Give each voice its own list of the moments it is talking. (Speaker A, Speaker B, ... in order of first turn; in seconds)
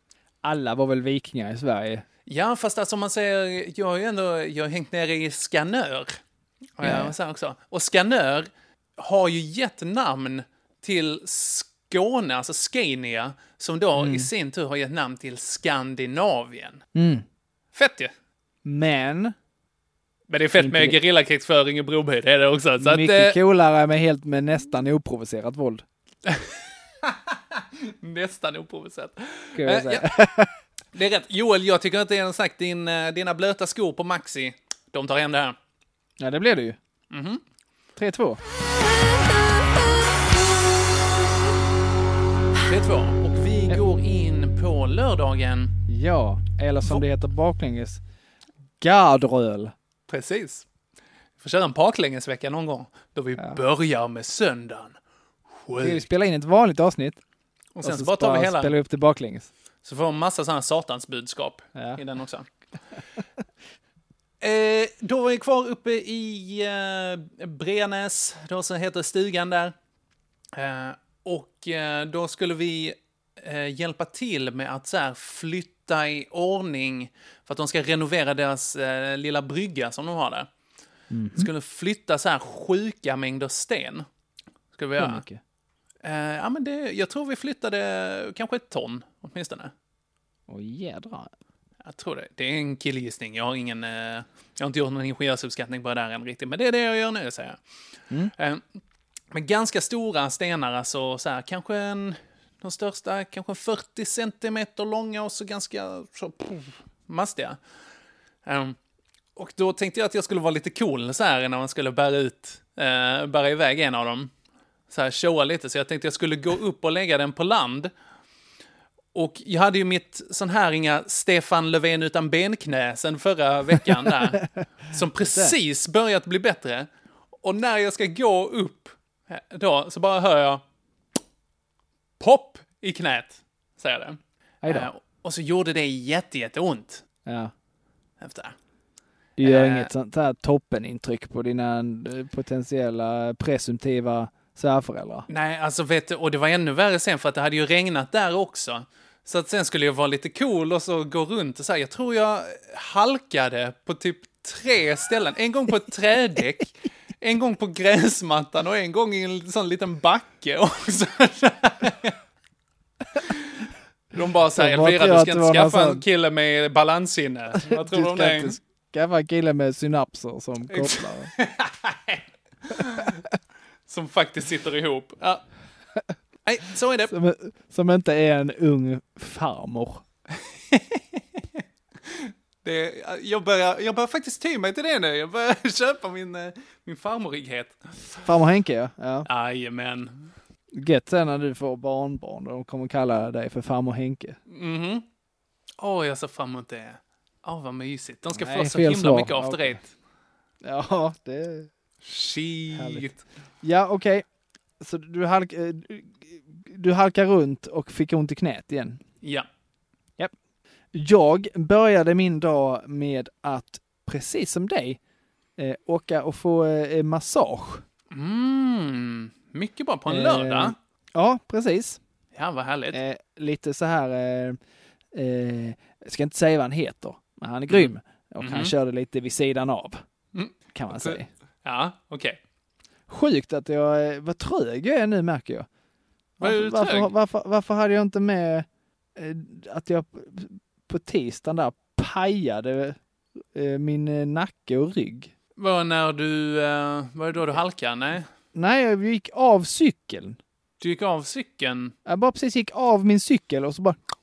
Speaker A: 0.4-2.0, 6.8-7.1, 13.9-14.3, 16.9-17.2, 18.6-19.3, 20.6-21.0, 22.8-25.8, 29.6-30.5, 36.2-36.8, 38.0-38.4, 45.9-48.0, 48.8-49.7, 55.8-57.2, 57.8-59.5, 81.1-81.5, 85.0-85.4, 90.5-91.3, 125.2-125.5, 134.6-134.9, 137.2-137.5, 139.4-145.3, 164.5-166.0, 167.6-171.3, 177.1-180.0, 188.2-189.3, 190.7-194.4, 198.3-199.8, 200.6-201.7, 202.7-203.1, 203.6-204.2, 204.8-209.0, 210.9-215.0, 215.6-217.8, 220.1-222.0, 222.9-224.6, 225.1-230.0, 230.7-231.3, 233.1-235.7, 236.4-243.0, 243.5-245.3, 248.5-250.4, 252.1-254.0
Speaker B: 2.2-6.2, 6.8-16.8, 17.7-18.1, 20.3-23.4, 26.2-30.1, 30.9-35.5, 37.1-37.4, 42.6-45.7, 50.1-50.6, 51.4-55.0, 55.6-56.1, 57.7-58.7, 59.8-62.5, 64.4-69.7, 70.5-80.5, 81.3-84.0, 84.7-85.2, 86.0-89.7, 91.8-97.6, 98.3-98.7, 99.3-107.6, 108.4-108.8, 109.3-114.3, 114.9-117.9, 119.1-126.9, 127.4-130.6, 132.2-137.0, 138.2-138.5, 139.4-139.9, 145.3-162.2, 164.1-168.6, 170.7-173.2, 173.9-175.4, 176.4-177.1, 180.4-187.9, 189.2-190.3, 194.5-195.1, 195.8-199.9, 202.0-203.2, 209.2-209.5, 218.1-220.8, 222.3-223.0, 227.7-228.7, 230.3-232.4, 236.4-237.1, 245.6-248.3, 250.8-251.9